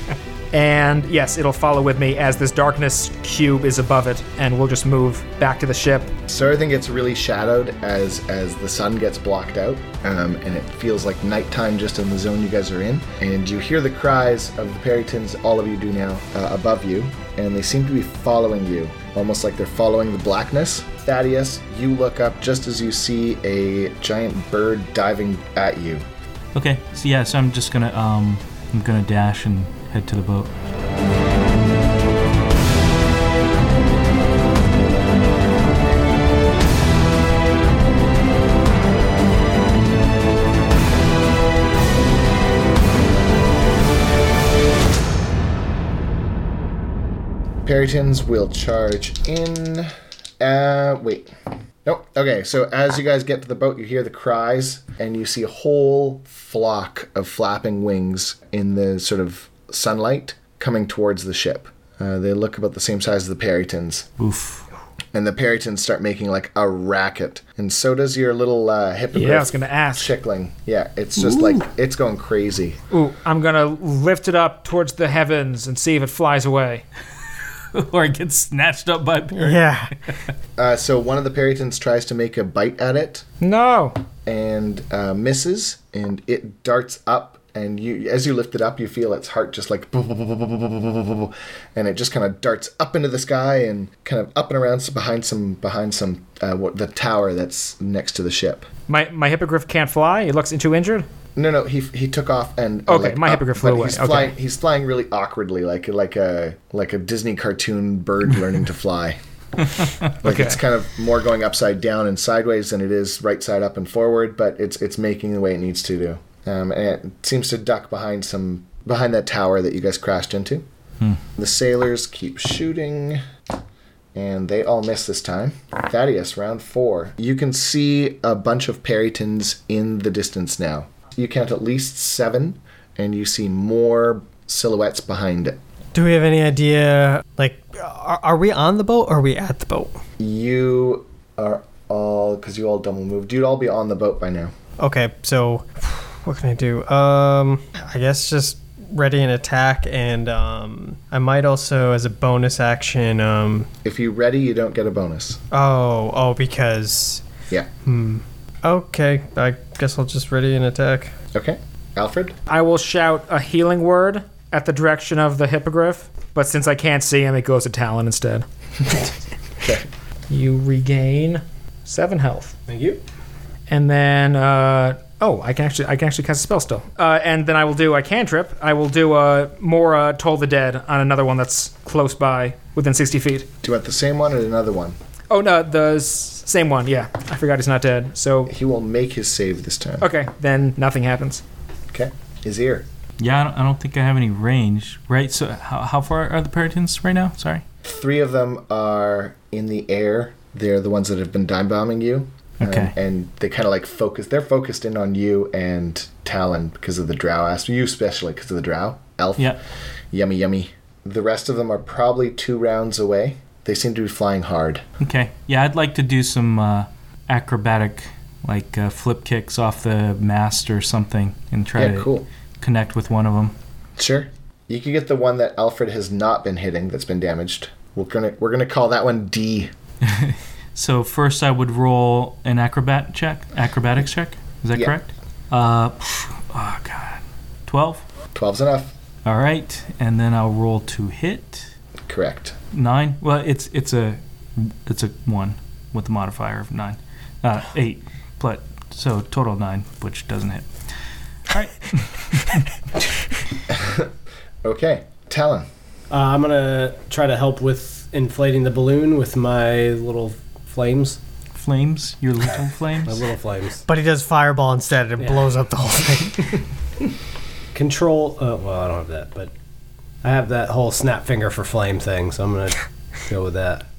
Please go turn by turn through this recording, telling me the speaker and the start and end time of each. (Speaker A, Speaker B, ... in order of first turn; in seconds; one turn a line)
Speaker A: 0.5-6.1
Speaker B: 6.3-26.1
Speaker C: 26.5-30.6
Speaker B: 47.6-51.3
Speaker B: 51.8-64.1
Speaker C: 64.2-64.6
Speaker B: 65.1-72.8
Speaker A: 69.1-70.1
Speaker A: 72.9-76.8
Speaker C: 77.7-79.6
Speaker D: 79.3-80.0
Speaker B: 80.6-83.2
Speaker A: 83.4-84.0
Speaker B: 84.2-98.7
Speaker A: 98.9-101.0
Speaker B: 101.3-109.2
Speaker A: 102.9-104.3
Speaker B: 110.1-120.6
Speaker A: 110.2-110.6
Speaker B: 121.4-123.2
Speaker B: 124.1-135.6
Speaker D: 135.9-140.0
Speaker B: 140.2-144.5
Speaker D: 144.8-153.7
Speaker B: 153.8-155.4
Speaker D: 155.5-157.2
Speaker D: 157.8-161.1
Speaker B: 161.3-162.3
Speaker A: 162.5-168.4
Speaker B: 169.6-169.9
Speaker A: 170.3-172.5
Speaker E: 172.7-173.0
Speaker A: 173.7-183.5
Speaker B: 183.6-185.0
Speaker A: 185.3-188.5
Speaker B: 188.5-190.1
Speaker A: 190.0-191.4
Speaker B: 191.9-192.8
Speaker C: 193.2-197.6
Speaker B: 197.8-209.6
Speaker C: 202.6-202.9
Speaker B: 210.1-214.8
Speaker C: 215.0-223.5
Speaker B: 221.8-222.3
Speaker B: 224.0-229.7
Speaker C: 230.0-238.0
Speaker B: 238.3-238.9
Speaker C: 239.2-241.7
Speaker B: 242.1-242.6
Speaker C: 242.7-250.7
Speaker C: 251.5-252.6
Speaker B: 253.7-254.1
Speaker B: 254.6-255.7
Speaker E: 256.1-261.2
Speaker C: 261.5-263.2
Speaker E: 262.4-263.9
Speaker D: 263.9-266.6
Speaker E: 265.2-265.5
Speaker E: 267.7-269.5
Speaker E: 270.2-273.9